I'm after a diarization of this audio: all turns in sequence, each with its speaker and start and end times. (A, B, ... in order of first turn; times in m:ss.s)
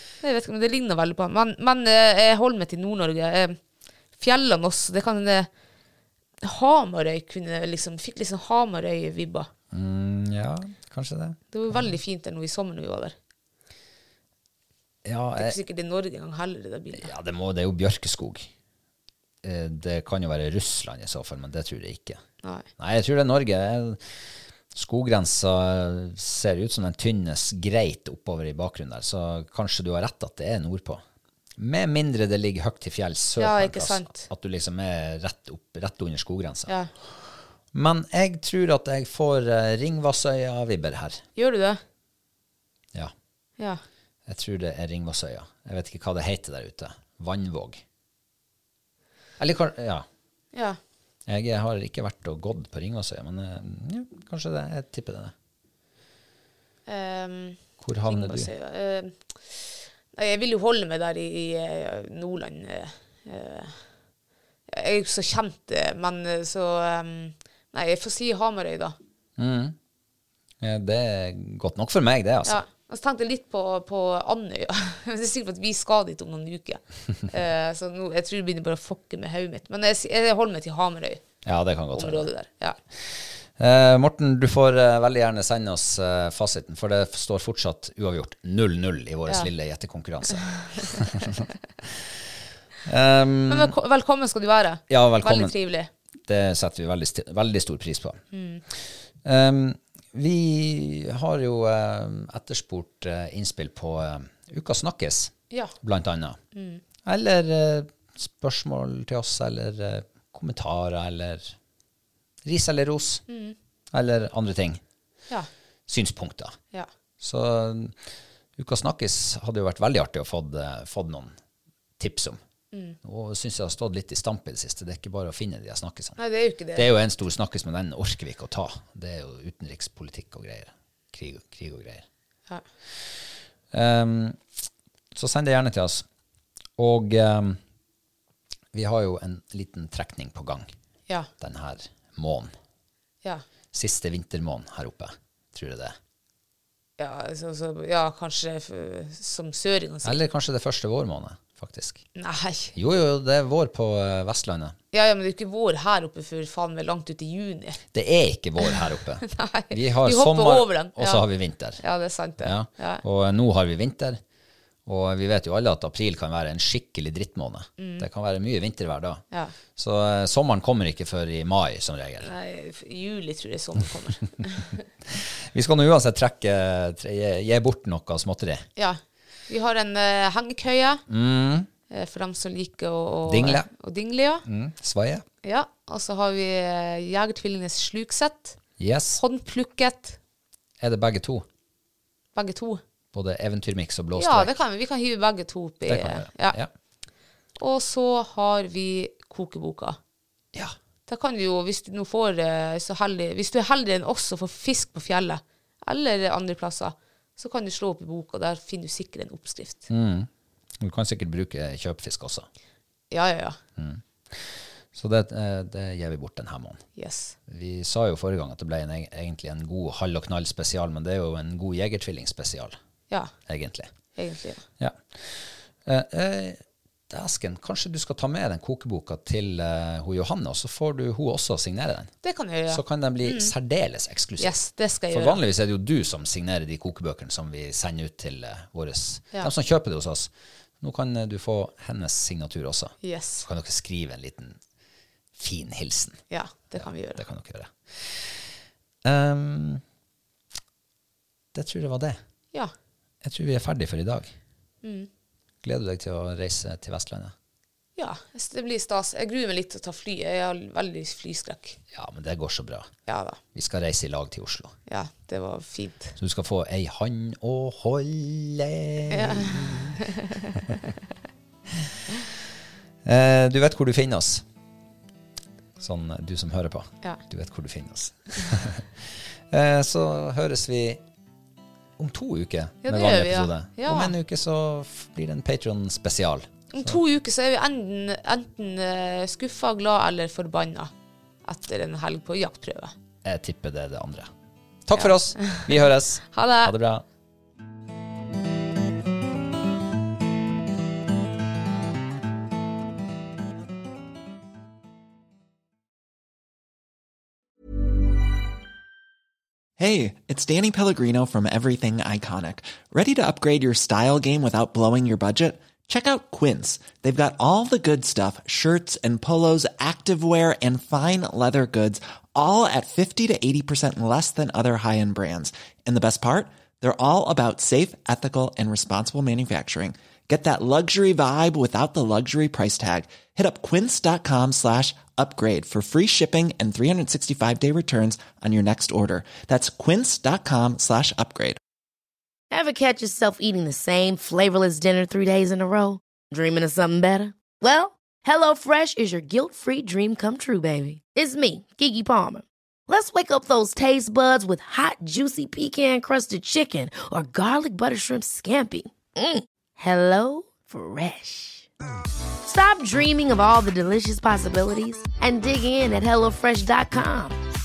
0:00.2-0:03.6 A
0:04.2-0:05.5 A
0:06.4-0:09.5 A
0:09.7-0:12.0 B
0:11.5-0:13.1 A
0:15.0-0:15.6 B
0:15.3-0:17.1 A
0:17.0-0:18.5 B
0:19.4-0:22.2 B
0:22.8-0:24.2 B
0:24.7-0:31.0 B
0:31.6-0:41.2 B
0:33.4-0:34.3 A
0:41.4-0:41.8 A
0:44.2-0:47.8 B
0:49.4-0:50.0 B
0:50.5-0:50.8 A
0:51.3-0:55.3 B
0:56.9-1:03.8 A
0:57.8-0:58.5 B
1:04.7-1:09.0 A
1:09.4-1:09.8 B
1:10.6-1:12.6 B
1:12.4-1:21.2 A
1:21.4-1:22.3 B
1:21.9-1:22.8 A
1:22.9-1:32.2 B
1:30.3-1:31.3 A
1:32.8-1:33.7 B
1:33.5-1:35.9 A
1:34.9-1:35.5 B
1:36.3-1:46.4 B
1:38.3-1:38.6 A
1:46.5-1:46.8 A
1:47.0-1:51.6 B
1:52.4-1:53.2 B
1:53.3-1:53.5 A
1:53.9-1:54.8 B
1:55.9-1:56.6 B
1:57.2-1:58.0 B
1:58.6-2:01.3 B
2:02.0-2:02.4 B
2:02.7-2:03.0 A
2:03.0-2:06.2 B
2:06.2-2:06.9 A
2:06.7-2:12.0 B
2:13.7-2:14.4 B
2:15.1-2:16.0 B
2:16.8-2:17.6 B
2:18.7-2:20.7 B
2:21.4-2:22.5 B
2:23.7-2:26.0 B
2:27.0-2:30.2 A
2:30.0-2:32.0 B
2:32.2-2:32.7 A
2:32.7-2:34.8 B
2:34.9-2:37.8 A
2:37.9-2:41.8 B
2:39.3-2:41.2 A
2:41.8-2:43.0 A
2:42.4-2:44.2 B
2:44.8-2:49.2 B
2:47.8-2:48.0 A
2:49.7-2:52.3 B
2:52.2-2:54.8 A
2:55.0-2:58.7 B
2:58.8-3:01.0 A
3:01.1-3:01.7 B
3:01.9-3:04.4 A
3:03.3-3:03.7 B
3:04.4-3:05.2 B
3:05.4-3:08.6 A
3:08.8-3:09.2 B
3:09.2-3:10.2 A
3:10.8-3:11.4 B
3:12.3-3:12.8 A
3:13.1-3:14.5 B
3:14.2-3:16.6 A
3:15.9-3:16.7 B
3:17.6-3:20.0 A
3:21.1-3:29.9 A
3:29.9-3:30.3 B
3:30.8-3:32.5 B
3:33.1-3:33.6 A
3:33.8-3:36.8 B
3:37.0-3:37.4 A
3:37.5-3:42.8 B
3:43.4-3:43.9 B
3:44.1-3:44.6 A
3:44.8-3:52.1 B
3:52.2-3:53.5 A
3:52.7-3:54.6 B
3:54.4-3:55.4 A
3:55.1-4:04.6 B
4:03.0-4:03.4 A
4:05.4-4:09.8 B
4:06.3-4:07.2 A
4:11.5-4:12.2 B
4:13.2-4:14.4 B
4:14.8-4:15.1 A
4:15.6-4:17.3 B
4:18.0-4:21.8 A
4:21.9-4:22.9 B
4:23.1-4:23.4 A
4:23.5-4:24.8 B
4:24.9-4:26.2 A
4:26.2-4:30.0 B
4:29.1-4:30.6 A
4:31.7-4:32.3 B
4:33.0-4:34.4 B
4:35.8-4:41.0 B
4:42.0-4:47.0 B
4:42.8-4:44.1 A
4:46.7-4:50.9 A
4:51.4-4:52.9 A
4:53.2-4:54.3 B
4:54.8-4:57.0 B
4:54.9-4:55.7 A
4:56.3-4:56.7 A
5:09.8-5:41.6 C
5:42.5-6:01.7 D
6:02.4-6:07.4 D